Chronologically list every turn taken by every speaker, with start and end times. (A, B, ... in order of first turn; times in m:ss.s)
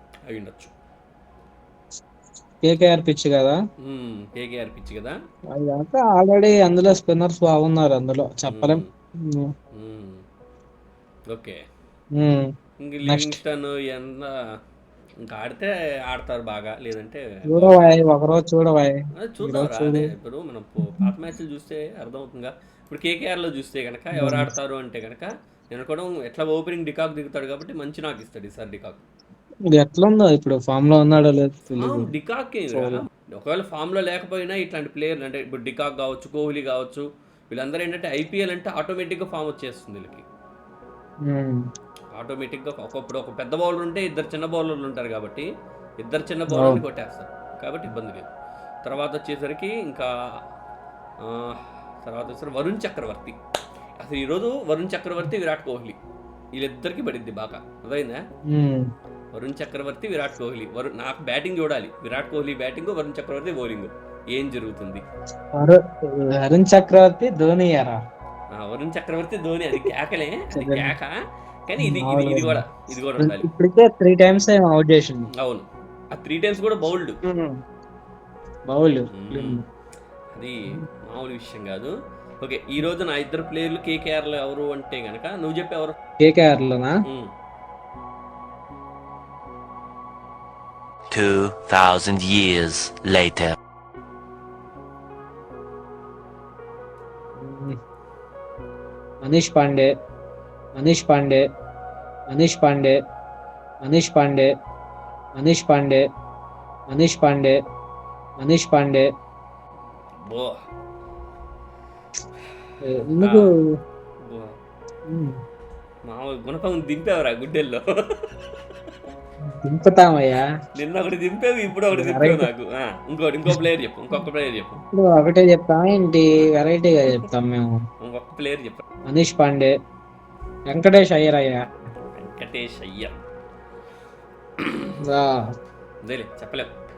0:00.3-0:00.7 A
0:02.6-0:03.6 B
0:03.8-0:05.2 A
0:05.5-0:09.5 B
0:08.5-0:08.9 A
0:09.8-0:10.2 A
0:11.3-0:11.6 A
0:12.1-0:12.5 B
0:12.8-0:14.4 A
0:13.1-0:13.4 B
0:15.2-0:18.1 A
0:17.5-0:20.1 B
0:19.2-0:29.0 A
0:24.2-0:24.5 B
0:29.8-0:32.1 B
0:31.8-0:40.2 A
0:32.7-0:33.0 B
0:41.3-0:41.6 B
0:42.1-0:45.5 A
0:46.0-0:48.3 A
0:46.6-0:46.8 B
0:48.8-0:50.1 A
0:51.2-0:53.4 A
0:54.0-0:56.0 A
0:56.6-0:58.2 A
0:58.5-0:58.8 B
0:59.3-1:05.0 A
1:05.6-1:08.0 B
1:08.6-1:11.1 A
1:10.5-1:10.9 B
1:11.7-1:13.5 A
1:11.8-1:12.6 B
1:13.2-1:15.3 B
1:15.4-1:17.2 A
1:17.2-1:17.6 B
1:18.7-1:19.6 B
1:19.1-1:19.6 A
1:20.3-1:26.0 A
1:26.2-1:26.9 B
1:31.1-1:33.6 C
1:37.4-1:37.8 B
1:39.2-1:39.9 B
1:40.8-1:41.5 B
1:42.3-1:43.0 B
1:43.8-1:44.5 B
1:45.4-1:46.1 B
1:46.9-1:47.6 B
1:48.4-1:49.1 B
1:50.2-1:50.6 A
1:52.8-1:53.5 B
1:53.2-1:53.5 A
1:54.2-1:54.6 A
1:55.1-1:55.4 B
1:56.1-1:58.5 A
1:59.5-2:00.5 B
2:00.8-2:04.8 A
2:01.9-2:02.5 B
2:04.9-2:07.8 B
2:08.0-2:08.8 A
2:09.1-2:09.7 B
2:10.7-2:11.6 B
2:12.1-2:13.1 A
2:14.6-2:15.0 A
2:15.0-2:15.4 B
2:16.0-2:16.7 A